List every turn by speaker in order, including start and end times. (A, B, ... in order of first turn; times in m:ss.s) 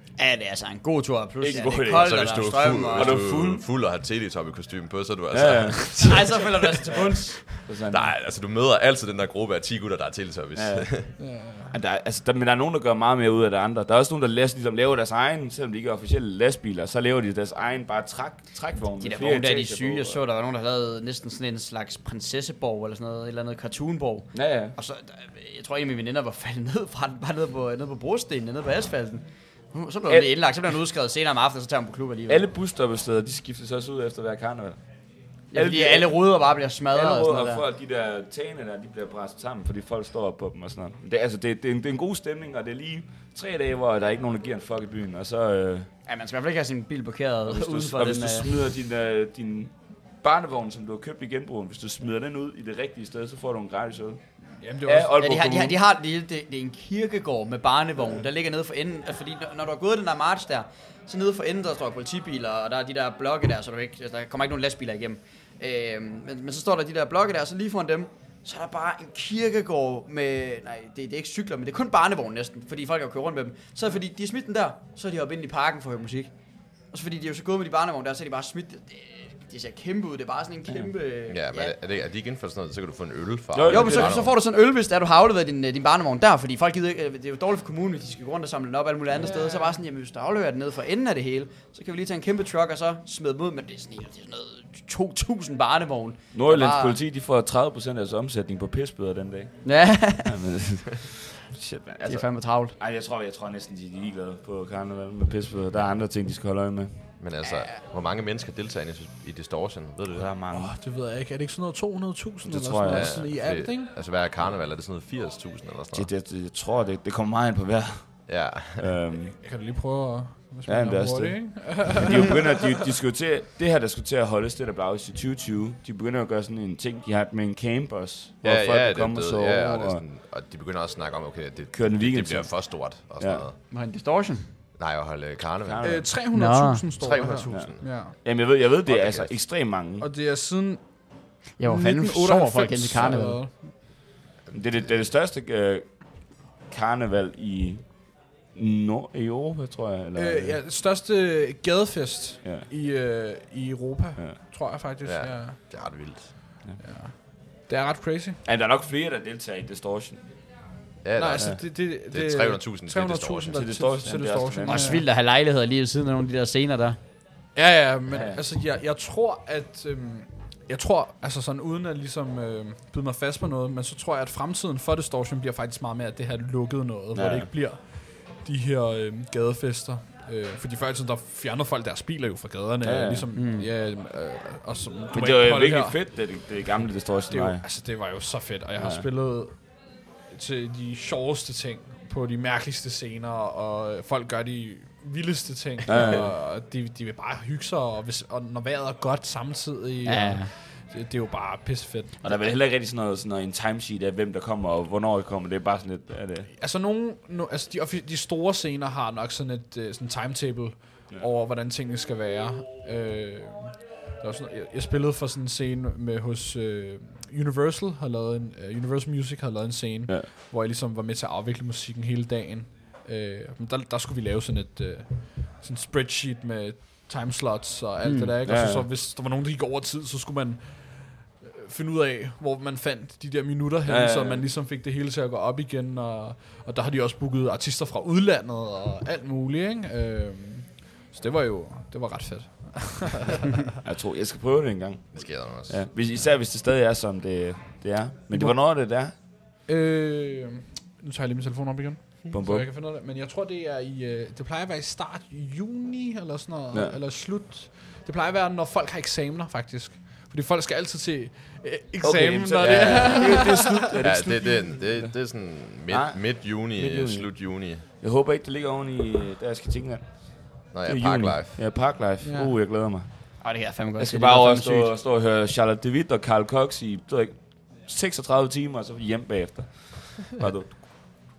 0:00.2-0:03.3 A
0:01.4-0:02.2 B
0:01.9-0:06.4 C
0:02.9-0:03.6 B
0:05.3-0:06.1 B
0:06.0-0:07.4 A
0:07.5-0:11.2 C
0:07.6-0:08.1 B
0:10.6-0:10.9 B
0:11.2-0:11.7 D
0:11.7-0:20.2 B
0:19.0-0:32.5 A
0:24.3-0:24.8 B
0:30.1-0:30.3 B
0:32.3-0:45.9 B
0:35.5-0:37.6 A
0:46.0-0:48.5 A
0:47.5-0:54.3 B
0:54.6-0:55.1 D
0:54.8-0:55.8 B
0:55.2-1:21.8 A
1:21.3-1:24.3 C
1:23.5-1:24.2 B
1:23.7-1:37.0 A
1:29.2-1:29.7 B
1:36.3-1:47.1 B
1:39.6-1:40.4 A
1:42.0-1:42.7 A
1:47.2-1:50.3 C
1:47.4-1:47.7 A
1:50.1-1:50.7 B
1:50.5-1:53.9 D
1:52.4-1:53.3 B
1:52.9-1:56.1 C
1:55.9-1:59.4 B
1:58.3-1:59.0 C
1:59.4-2:02.4 D
2:00.7-2:10.0 B
2:08.4-2:13.6 C
2:11.7-2:13.5 B
2:13.7-2:14.5 A
2:14.8-2:16.1 C
2:15.6-2:16.1 B
2:15.8-2:18.2 D
2:16.3-2:16.9 A
2:17.0-2:17.9 C
2:17.5-2:20.1 B
2:18.9-2:19.3 C
2:19.8-2:23.7 D
2:21.6-2:23.4 A
2:22.9-2:23.2 B
2:24.5-2:30.6 B
2:30.2-2:38.4 D
2:32.4-2:32.7 B
2:35.0-2:36.6 C
2:38.4-2:40.4 B
2:41.0-2:43.7 C
2:41.2-2:45.0 D
2:43.5-2:45.0 B
2:44.6-2:47.0 A
2:47.5-3:06.5 D
2:48.1-2:48.4 B
2:57.2-2:57.5 B
3:02.8-3:03.3 B
3:03.3-3:03.7 A
3:05.1-3:07.8 B
3:07.3-3:22.2 D
3:08.8-3:09.0 B
3:15.9-3:16.3 B
3:20.0-3:20.5 A
3:22.2-3:26.5 B
3:26.5-4:03.6 D
3:48.0-3:48.3 A
3:48.4-3:48.9 B
3:53.9-3:54.5 B
4:03.8-4:09.2 B
4:05.1-4:06.1 C
4:08.3-4:23.8 D
4:12.3-4:12.7 B
4:16.7-4:17.0 B
4:22.0-4:33.4 B
4:22.6-4:23.5 C
4:24.0-4:27.8 C
4:30.7-4:31.8 C
4:32.2-4:32.5 D
4:33.4-4:34.9 A
4:34.0-4:40.8 B